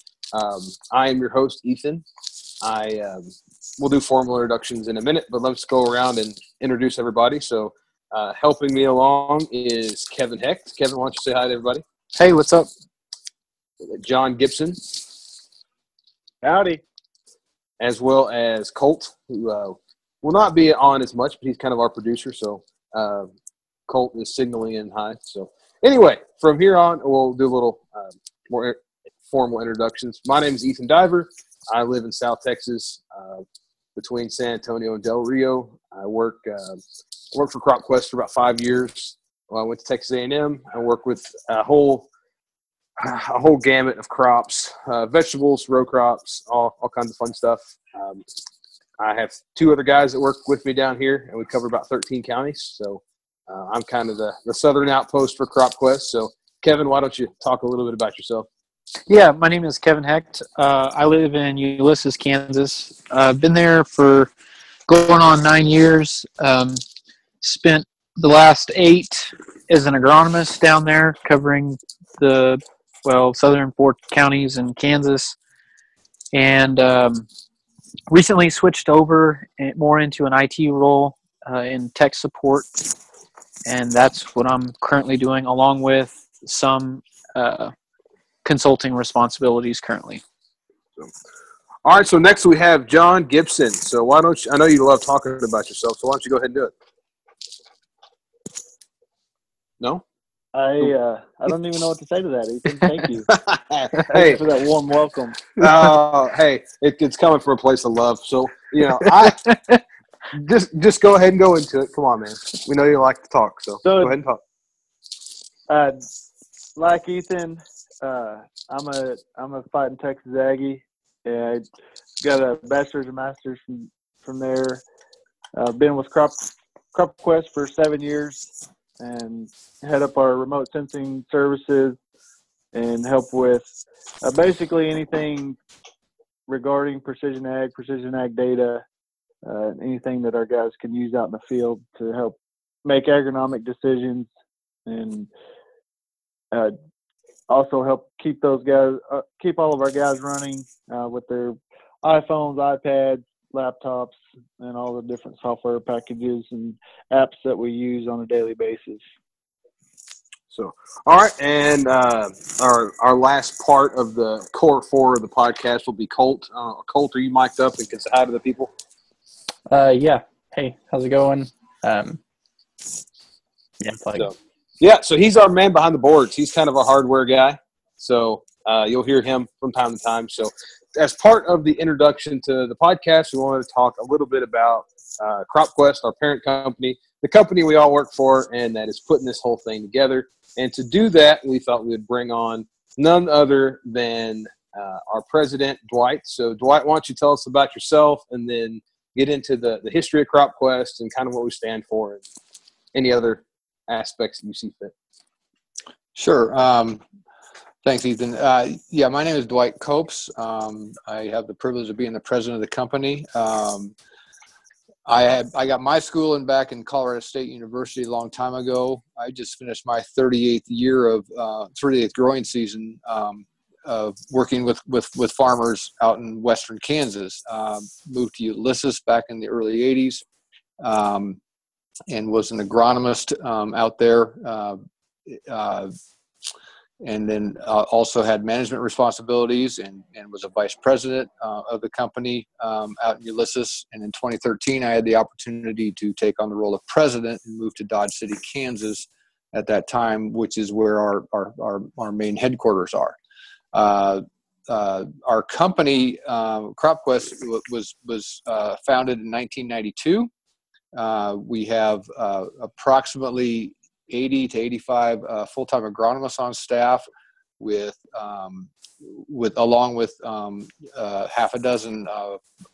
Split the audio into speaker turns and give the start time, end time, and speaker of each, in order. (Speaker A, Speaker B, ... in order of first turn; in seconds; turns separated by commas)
Speaker A: 0.3-2.0, Speaker A: 2.6-11.8, Speaker B: 12.1-12.7, Speaker A: 13.9-15.2, Speaker C: 16.4-16.8, Speaker A: 17.8-23.3, Speaker A: 23.9-33.4, Speaker A: 34.0-36.8, Speaker A: 37.3-42.1, Speaker A: 43.0-48.2, Speaker A: 49.0-58.5, Speaker B: 59.1-64.3, Speaker B: 64.9-66.8, Speaker B: 67.4-75.4, Speaker B: 76.3-77.3, Speaker B: 78.1-82.7, Speaker B: 83.7-87.7, Speaker B: 88.4-90.2, Speaker A: 91.8-96.7, Speaker C: 100.5-103.3, Speaker A: 103.3-104.4, Speaker C: 104.1-105.5, Speaker A: 105.6-109.5, Speaker A: 110.3-114.4, Speaker C: 113.8-114.1, Speaker C: 115.7-116.0, Speaker C: 116.8-121.6, Speaker C: 122.2-124.8, Speaker C: 125.5-126.4, Speaker C: 126.9-132.0, Speaker C: 132.7-133.7, Speaker C: 134.2-135.6, Speaker C: 136.5-138.8, Speaker C: 139.4-144.3, Speaker C: 144.9-145.3, Speaker C: 147.5-159.0, Speaker A: 160.5-168.7, Speaker B: 169.7-170.2, Speaker B: 173.8-174.1, Speaker A: 174.2-202.2, Speaker A: 202.9-204.9, Speaker D: 206.2-207.0, Speaker D: 207.8-213.9, Speaker D: 215.1-230.2, Speaker D: 230.8-231.4, Speaker D: 232.1-235.9, Speaker D: 237.0-253.2, Speaker D: 253.7-260.3, Speaker D: 260.9-267.1, Speaker D: 267.6-272.4